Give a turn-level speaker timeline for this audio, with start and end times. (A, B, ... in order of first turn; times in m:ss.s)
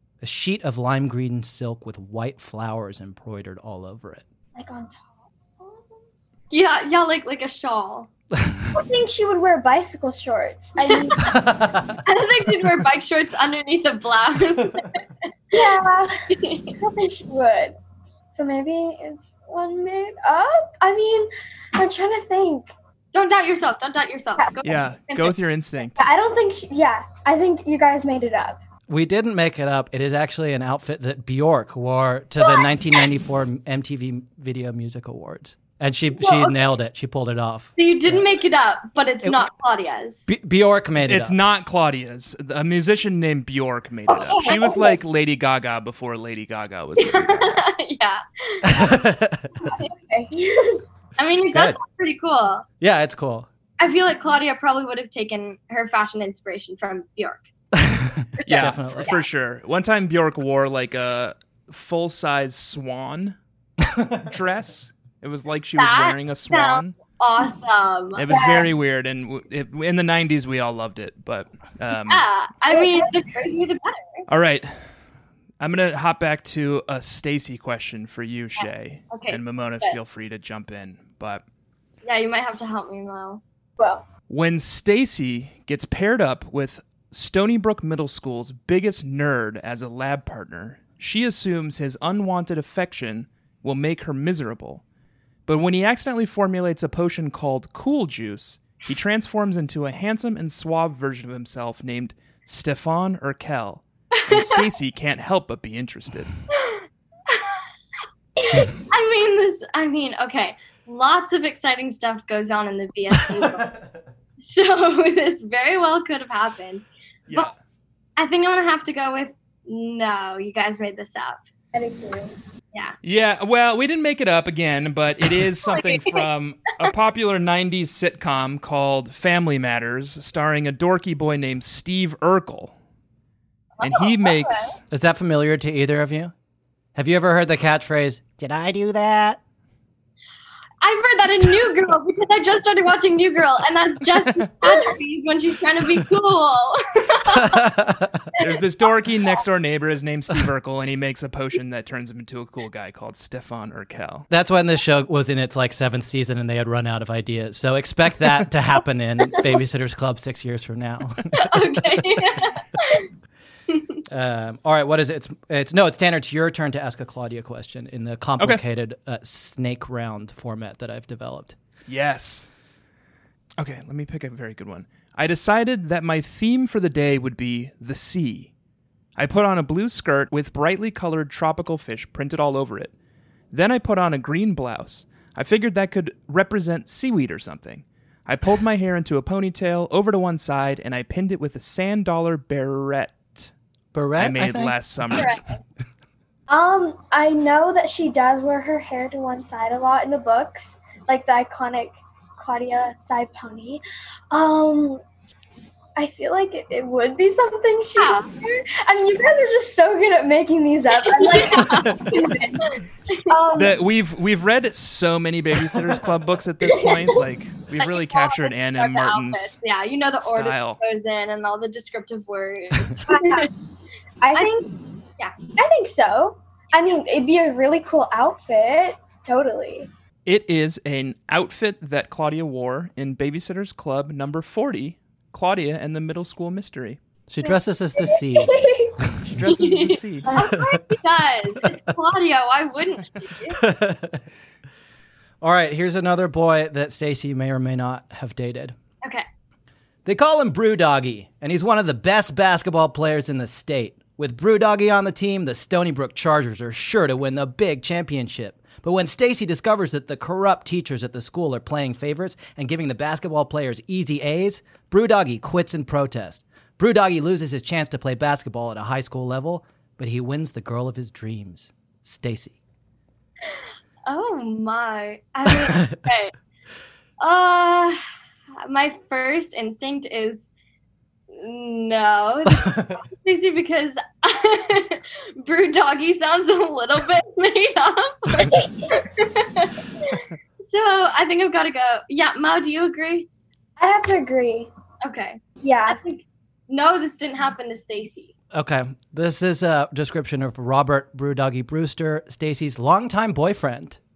0:00.2-0:04.2 A
0:04.6-0:05.1 B
0:05.6-0:06.0 B
0:06.5-0:08.1 C
0:08.7-0:11.3 B
0:10.8-0:11.4 C
0:11.2-0:12.0 A
0:12.0-0:15.0 C
0:15.5-0:16.2 B
0:16.4-0:16.7 C
0:16.8-0:17.8 B
0:18.3-0:22.7 B
0:23.1-0:25.4 C
0:24.6-0:26.0 D
0:26.0-0:28.6 B
0:28.9-0:38.3 A
0:37.8-0:40.3 C
0:39.2-0:39.5 A
0:40.3-0:41.4 A
0:41.0-0:47.6 D
0:44.1-0:44.9 B
0:44.4-0:44.7 C
0:47.0-0:48.9 C
0:48.7-0:49.5 A
0:49.9-0:50.8 B
0:51.2-0:52.6 C
0:51.5-0:51.8 A
0:52.8-0:53.5 A
0:53.8-0:57.4 C
0:57.8-0:59.1 A
0:58.4-0:59.2 C
0:58.5-1:03.4 D
1:03.9-1:04.2 A
1:04.3-1:07.0 D
1:05.8-1:08.5 C
1:08.2-1:12.2 D
1:08.3-1:08.7 B
1:12.1-1:14.2 C
1:12.7-1:13.1 B
1:14.3-1:14.8 D
1:15.6-1:21.4 D
1:18.6-1:20.0 C
1:22.0-1:23.4 C
1:23.8-1:24.0 B
1:24.3-1:34.8 D
1:35.5-1:46.3 D
1:44.2-1:44.6 C
1:46.6-1:47.5 C
1:48.9-1:53.8 C
1:54.4-1:57.5 C
1:57.3-1:57.5 D
1:58.2-2:01.4 C
2:01.7-2:02.3 B
2:03.0-2:12.7 D
2:05.6-2:06.2 C
2:13.8-2:14.8 C
2:13.8-2:14.8 D
2:14.9-2:16.3 A
2:17.0-2:19.4 A
2:20.8-2:27.7 C
2:27.3-2:28.2 A
2:28.4-2:34.3 D
2:34.3-2:41.7 A
2:41.4-2:43.1 C
2:44.1-2:51.6 A
2:51.9-2:52.5 D
2:53.6-2:58.5 D
2:59.2-3:02.9 D
3:03.5-3:13.5 D
3:13.9-3:14.8 A
3:14.2-3:15.4 D
3:15.1-3:15.6 C
3:16.5-3:25.0 B
3:26.0-3:32.7 B
3:28.0-3:28.3 C
3:30.9-3:33.3 C
3:33.3-3:33.8 B
3:33.6-3:39.6 D
3:36.7-3:37.1 B
3:37.8-3:43.5 C
3:40.2-3:40.8 D
3:43.1-3:43.5 B
3:44.2-3:44.7 B
3:45.5-3:49.9 B
3:50.3-3:57.0 D
3:57.3-3:58.6 A
3:57.4-3:59.0 B
3:59.2-4:00.3 D
3:59.4-4:03.6 C
4:00.3-4:00.5 B
4:00.5-4:00.8 A
4:03.5-4:04.2 A
4:05.4-4:08.8 A
4:10.0-4:32.6 A
4:33.5-4:36.3 C
4:37.2-4:38.0 C
4:38.6-4:40.5 C
4:41.3-4:53.3 C
4:42.7-4:43.0 A
4:48.4-4:48.9 B
4:53.8-4:54.7 B
4:55.0-4:58.3 C
4:55.6-4:56.0 B
4:58.5-5:04.0 A